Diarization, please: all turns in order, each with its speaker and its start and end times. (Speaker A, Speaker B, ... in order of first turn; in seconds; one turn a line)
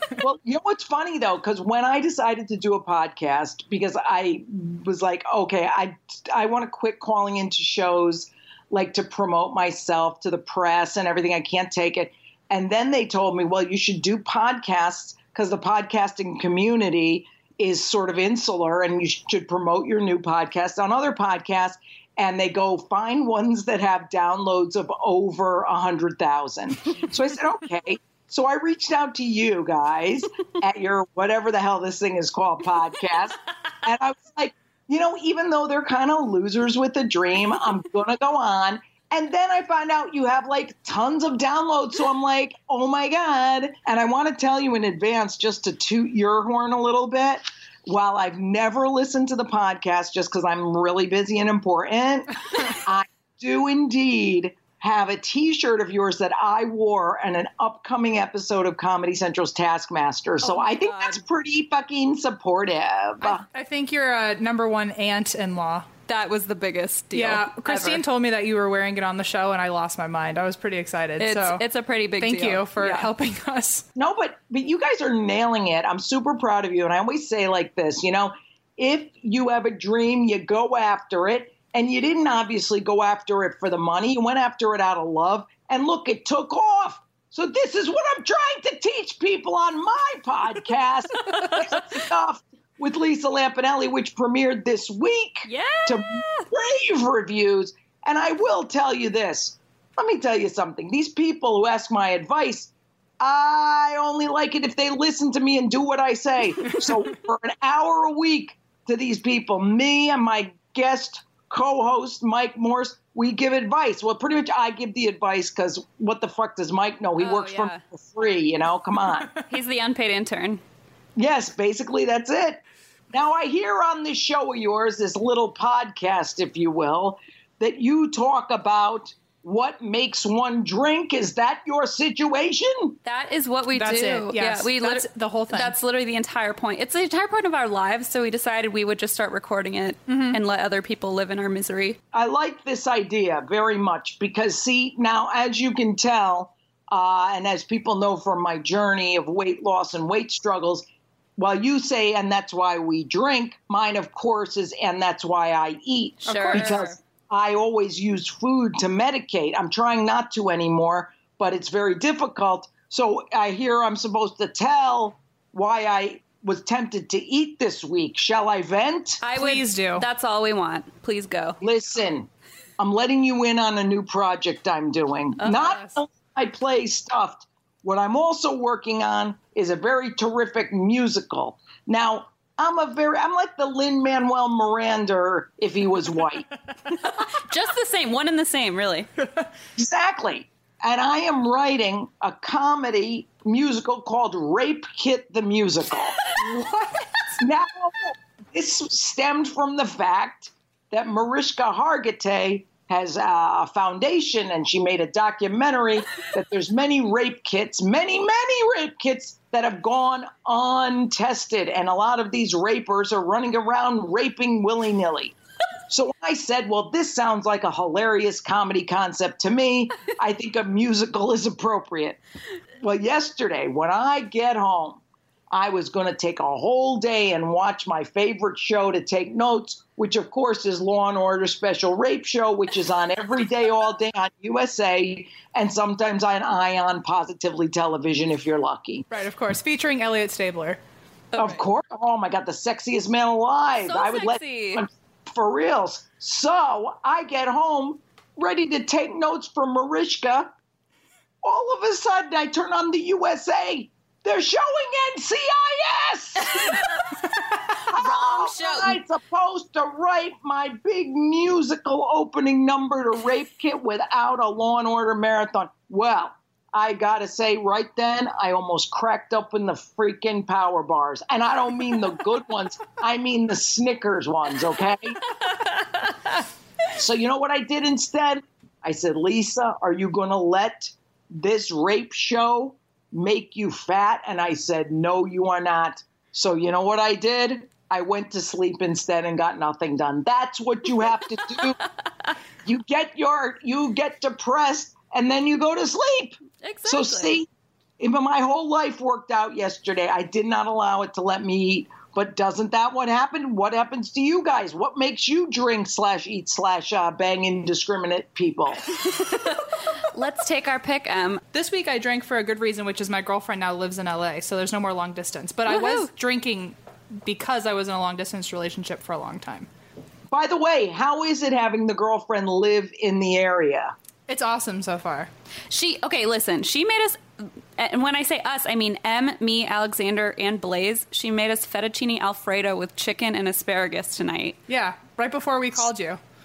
Speaker A: 0.2-63.4
Speaker B: 60.4-61.2
Speaker C: 63.2-65.9
Speaker B: 66.1-68.0
Speaker C: 67.1-71.6
Speaker B: 71.2-73.1
Speaker C: 72.2-73.9
Speaker A: 74.0-119.3
Speaker B: 95.5-96.5
Speaker B: 117.2-117.8
Speaker B: 119.5-120.6
Speaker A: 121.2-133.0
Speaker B: 133.1-142.0
Speaker C: 133.7-135.8
Speaker C: 140.1-140.4
Speaker A: 142.1-169.2
Speaker B: 156.2-156.9
Speaker C: 156.2-156.9
Speaker B: 169.2-171.6
Speaker C: 169.3-170.1
Speaker A: 171.6-172.3
Speaker A: 172.8-186.5
Speaker C: 175.4-176.0
Speaker B: 186.9-189.1
Speaker A: 189.8-196.2
Speaker C: 196.3-197.2
Speaker A: 197.4-215.3
Speaker A: 215.9-222.2
Speaker A: 222.8-239.1
Speaker C: 239.1-240.8
Speaker B: 241.3-241.6
Speaker A: 241.4-250.5
Speaker B: 243.8-244.8
Speaker A: 251.4-256.8
Speaker B: 256.4-257.1
Speaker B: 257.8-259.0
Speaker A: 257.9-275.2
Speaker A: 276.9-291.8
Speaker A: 292.6-297.5
Speaker B: 296.6-297.4
Speaker A: 298.0-308.8
Speaker B: 308.9-311.4
Speaker C: 311.5-319.7
Speaker B: 315.7-316.1
Speaker A: 320.3-323.9
Speaker C: 324.3-325.3
Speaker B: 325.7-327.2
Speaker B: 327.8-334.6
Speaker C: 334.7-336.2